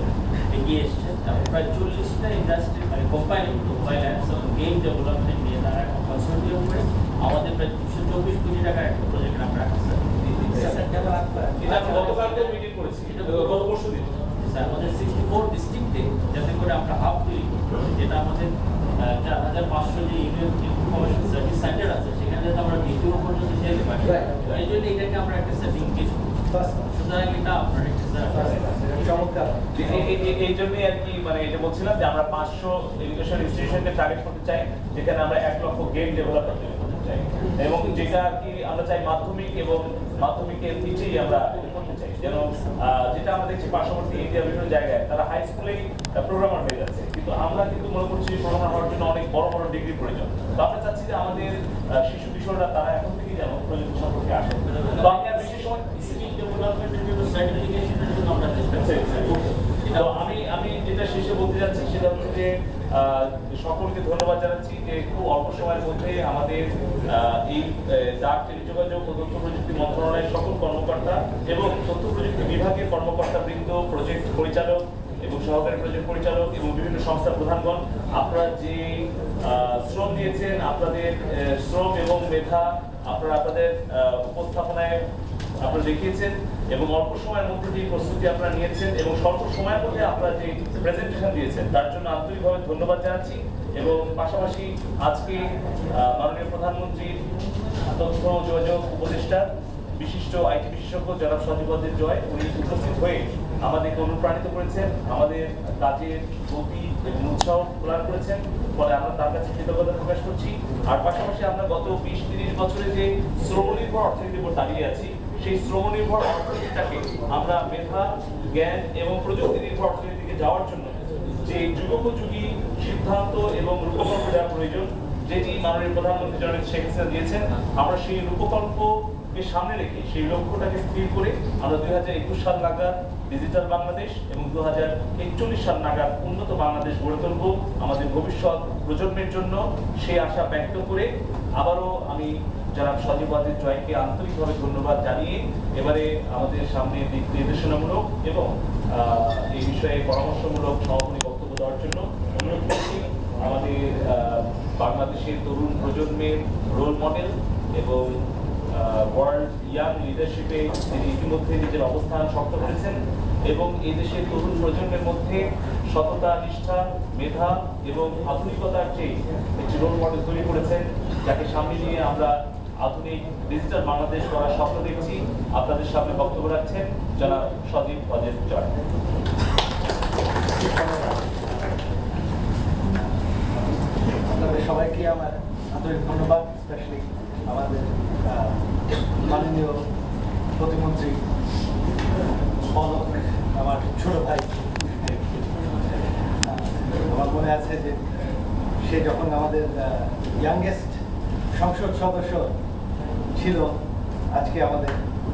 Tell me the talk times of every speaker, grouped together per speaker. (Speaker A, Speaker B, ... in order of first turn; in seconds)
Speaker A: 0.5-13.8, 14.4-29.3, 54.7-60.4
Speaker B: 10.2-10.8, 11.6-14.2, 29.7-56.2, 58.8-85.0, 85.6-97.2, 97.8-158.2, 158.7-178.7
Speaker C: 10.5-12.0, 26.5-26.8, 28.3-29.6, 180.5-181.3, 184.3-188.6, 189.2-189.8, 190.6-191.2, 192.7-195.4, 196.4-198.1, 198.8-201.0, 201.5-202.5, 203.3-203.8, 204.3-205.0